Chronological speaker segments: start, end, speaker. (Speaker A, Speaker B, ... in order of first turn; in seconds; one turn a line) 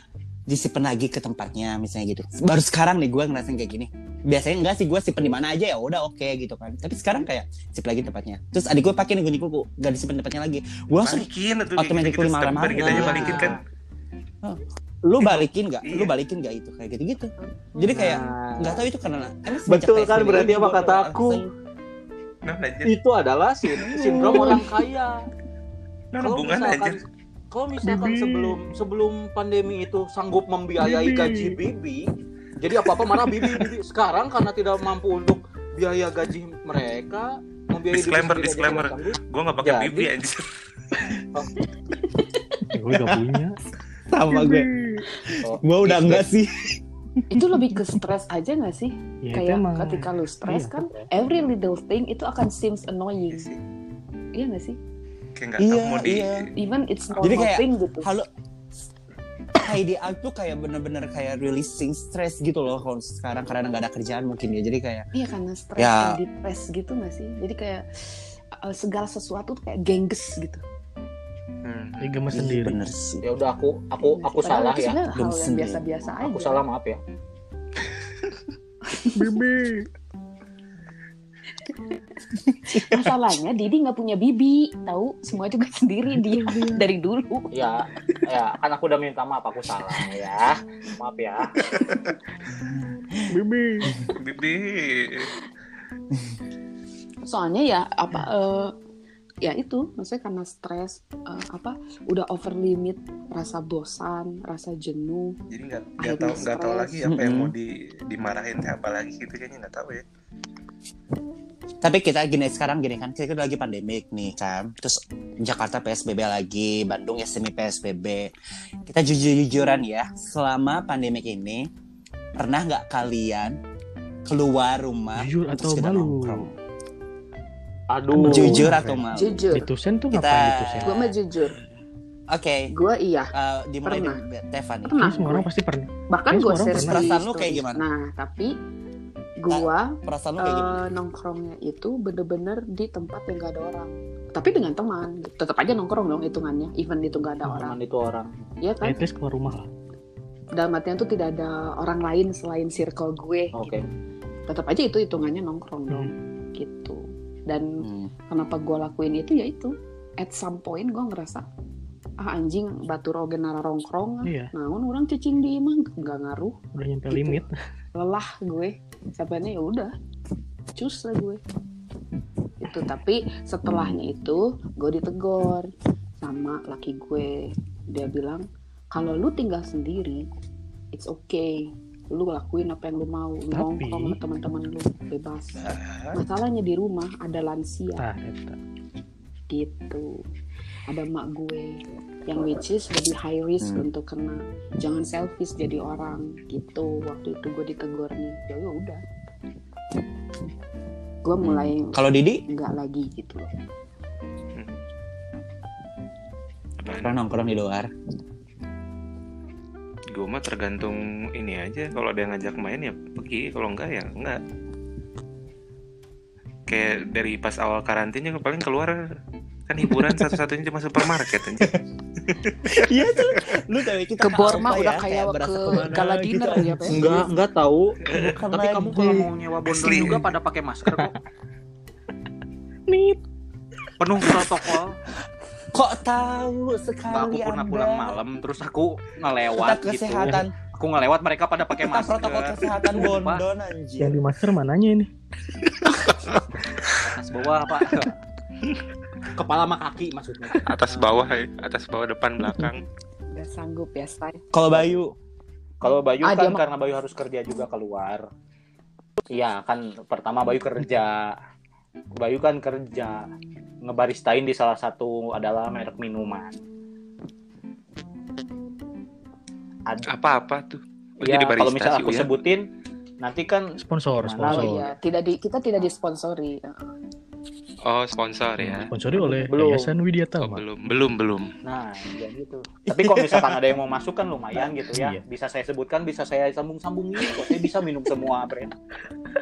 Speaker A: 0.5-13.6
Speaker B: 11.0-13.6
Speaker C: 12.8-13.6
Speaker A: 14.4-21.4
Speaker B: 15.2-16.1
Speaker C: 17.8-18.9
Speaker C: 19.6-21.5
Speaker B: 22.4-22.9
Speaker C: 22.9-25.2
Speaker A: 23.9-24.6
Speaker D: 24.0-24.7
Speaker B: 26.1-27.0
Speaker C: 26.2-40.1
Speaker E: 27.9-28.6
Speaker E: 30.8-31.4
Speaker B: 37.9-40.5
Speaker D: 42.1-42.6
Speaker E: 42.7-43.6
Speaker A: 44.1-46.8
Speaker E: 44.3-45.0
Speaker C: 45.4-46.3
Speaker D: 47.3-53.5
Speaker E: 49.2-50.9
Speaker B: 53.3-53.6
Speaker D: 54.4-54.8
Speaker B: 55.4-56.5
Speaker A: 55.6-56.5
Speaker D: 56.6-58.1
Speaker A: 57.2-58.3
Speaker A: 59.6-65.1
Speaker D: 65.1-70.6
Speaker A: 65.8-66.2
Speaker B: 71.6-72.2
Speaker E: 72.0-72.8
Speaker A: 72.3-73.2
Speaker C: 73.2-75.0
Speaker D: 74.0-76.6
Speaker A: 75.1-75.8
Speaker C: 76.2-77.0
Speaker D: 78.9-79.4
Speaker E: 79.2-79.9
Speaker D: 82.7-87.7
Speaker C: 87.5-91.6
Speaker E: 93.3-94.0
Speaker B: 94.2-95.3
Speaker D: 97.3-98.7
Speaker D: 99.4-105.4
Speaker B: 105.5-110.0
Speaker D: 106.0-107.0
Speaker A: 107.1-107.5
Speaker A: 111.8-118.3
Speaker A: 118.9-121.7
Speaker A: 122.4-123.6
Speaker A: 124.3-126.5
Speaker E: 125.2-126.5
Speaker C: 127.9-128.8
Speaker E: 128.1-131.0
Speaker A: 128.2-129.4
Speaker D: 129.1-129.7
Speaker A: 130.1-131.1
Speaker D: 130.8-131.6
Speaker A: 132.3-132.7
Speaker D: 132.7-133.3
Speaker A: 133.3-135.0
Speaker D: 133.8-134.2
Speaker D: 134.8-135.5
Speaker E: 135.0-137.2
Speaker D: 136.1-138.6
Speaker A: 136.7-137.8
Speaker D: 139.4-147.8
Speaker A: 139.5-140.8
Speaker C: 147.5-148.3
Speaker D: 148.6-149.0
Speaker E: 148.8-149.7
Speaker D: 150.5-153.8
Speaker C: 153.5-153.9
Speaker D: 154.5-161.5
Speaker A: 157.8-158.1
Speaker D: 162.2-169.9
Speaker E: 164.2-164.5
Speaker E: 166.7-167.6
Speaker D: 170.8-171.4
Speaker D: 172.6-180.3
Speaker A: 173.7-174.0
Speaker D: 180.9-185.6
Speaker E: 183.5-184.2
Speaker B: 185.6-186.2
Speaker D: 186.1-188.0
Speaker E: 188.0-188.6
Speaker D: 189.5-190.2
Speaker D: 190.9-199.0
Speaker D: 201.2-203.5
Speaker A: 201.4-202.4
Speaker B: 206.8-207.3
Speaker A: 206.9-207.9
Speaker B: 210.1-214.4
Speaker B: 216.7-219.0
Speaker B: 219.7-221.7
Speaker A: 219.9-220.4
Speaker B: 222.3-223.4
Speaker A: 222.7-227.3
Speaker D: 224.2-227.2
Speaker C: 226.9-231.2
Speaker A: 228.1-229.3
Speaker B: 228.1-228.4
Speaker B: 229.7-230.2
Speaker E: 232.9-233.2
Speaker C: 234.0-235.0
Speaker A: 235.7-238.2
Speaker C: 237.1-243.4
Speaker A: 239.5-240.6
Speaker A: 241.8-244.2
Speaker E: 244.0-245.1
Speaker B: 245.8-247.0
Speaker C: 247.0-248.2
Speaker C: 249.4-251.2
Speaker B: 250.6-252.8
Speaker D: 253.3-254.4
Speaker A: 254.5-255.1
Speaker C: 255.8-258.2
Speaker D: 256.2-256.6
Speaker C: 259.3-261.4
Speaker C: 262.1-263.3
Speaker C: 263.8-266.6
Speaker B: 270.1-272.4
Speaker C: 271.2-272.7
Speaker C: 273.2-274.9
Speaker E: 273.8-274.9
Speaker D: 274.5-276.8
Speaker B: 277.9-278.9
Speaker E: 278.6-280.6
Speaker C: 279.1-279.9
Speaker B: 280.4-281.5
Speaker C: 281.6-288.8
Speaker A: 282.9-283.7
Speaker E: 284.9-285.2